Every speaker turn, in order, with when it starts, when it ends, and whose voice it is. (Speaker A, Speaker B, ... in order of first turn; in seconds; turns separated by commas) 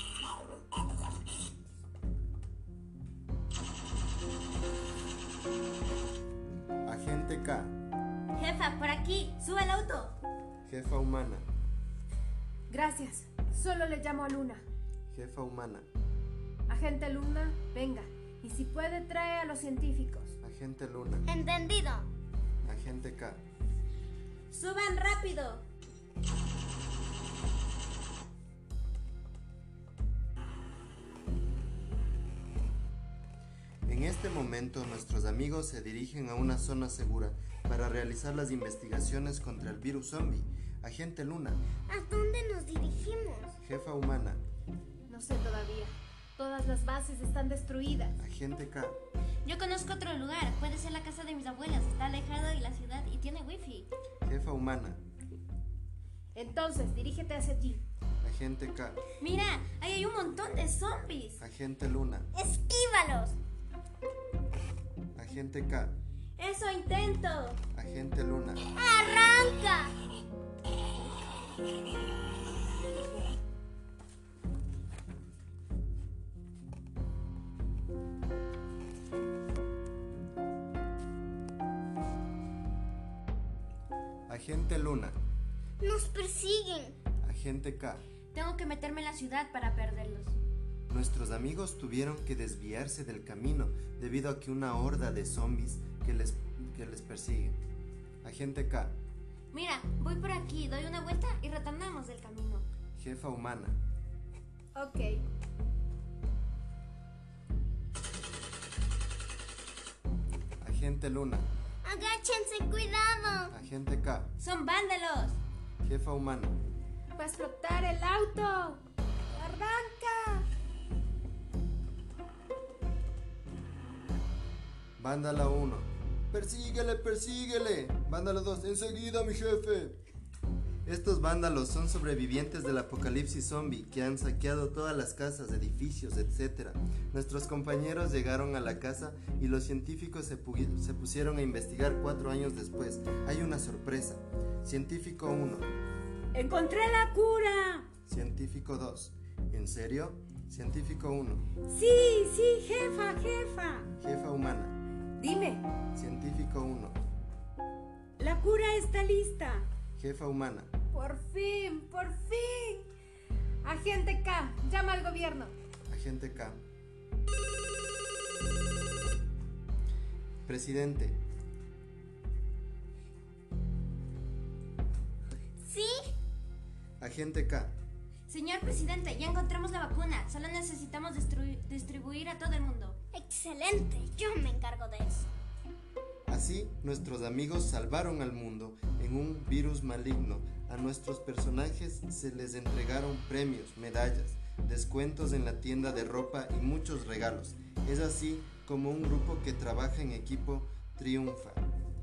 Speaker A: 6.8-7.8, Speaker B: 8.3-10.2, Speaker A: 10.7-11.5, Speaker C: 12.7-14.6, Speaker A: 15.1-15.9, Speaker C: 16.7-20.4, Speaker A: 20.4-21.3, Speaker D: 21.3-22.1, Speaker A: 22.6-23.4, Speaker B: 24.5-25.6, Speaker A: 33.9-41.6, Speaker D: 41.9-43.5, Speaker A: 43.6-44.4, Speaker C: 45.1-48.2, Speaker A: 48.2-49.0, Speaker B: 49.5-53.9, Speaker A: 54.2-55.0, Speaker C: 56.3-57.8, Speaker A: 58.2-59.0, Speaker B: 59.2-61.4, Speaker A: 61.4-62.3, Speaker D: 62.3-63.4, Speaker A: 65.1-66.0, Speaker B: 66.4-67.6, Speaker A: 67.7-68.6, Speaker D: 68.6-70.0, Speaker A: 84.3-85.2, Speaker D: 85.8-87.0, Speaker A: 87.2-88.0, Speaker B: 88.3-90.4, Speaker A: 90.9-97.6, Speaker A: 98.2-99.0, Speaker B: 99.5-102.7, Speaker A: 103.0-103.8, Speaker C: 104.8-105.2, Speaker A: 110.6-111.5, Speaker D: 111.8-113.5, Speaker A: 113.5-114.3, Speaker B: 114.4-115.4, Speaker A: 115.8-116.6, Speaker C: 117.2-118.8, Speaker C: 119.3-120.5, Speaker A: 125.0-130.0, Speaker A: 130.8-145.7, Speaker E: 146.3-147.9, Speaker A: 148.1-151.5, Speaker E: 151.7-153.9, Speaker A: 154.0-154.8, Speaker C: 155.2-155.7, Speaker A: 155.9-157.0, Speaker E: 158.2-159.7, Speaker A: 160.0-160.7, Speaker C: 160.9-162.9, Speaker C: 163.6-165.5, Speaker A: 165.9-166.6, Speaker A: 170.5-171.2, Speaker D: 175.6-176.1, Speaker A: 177.0-177.8, Speaker B: 178.3-183.0, Speaker D: 183.1-185.3, Speaker A: 186.3-201.6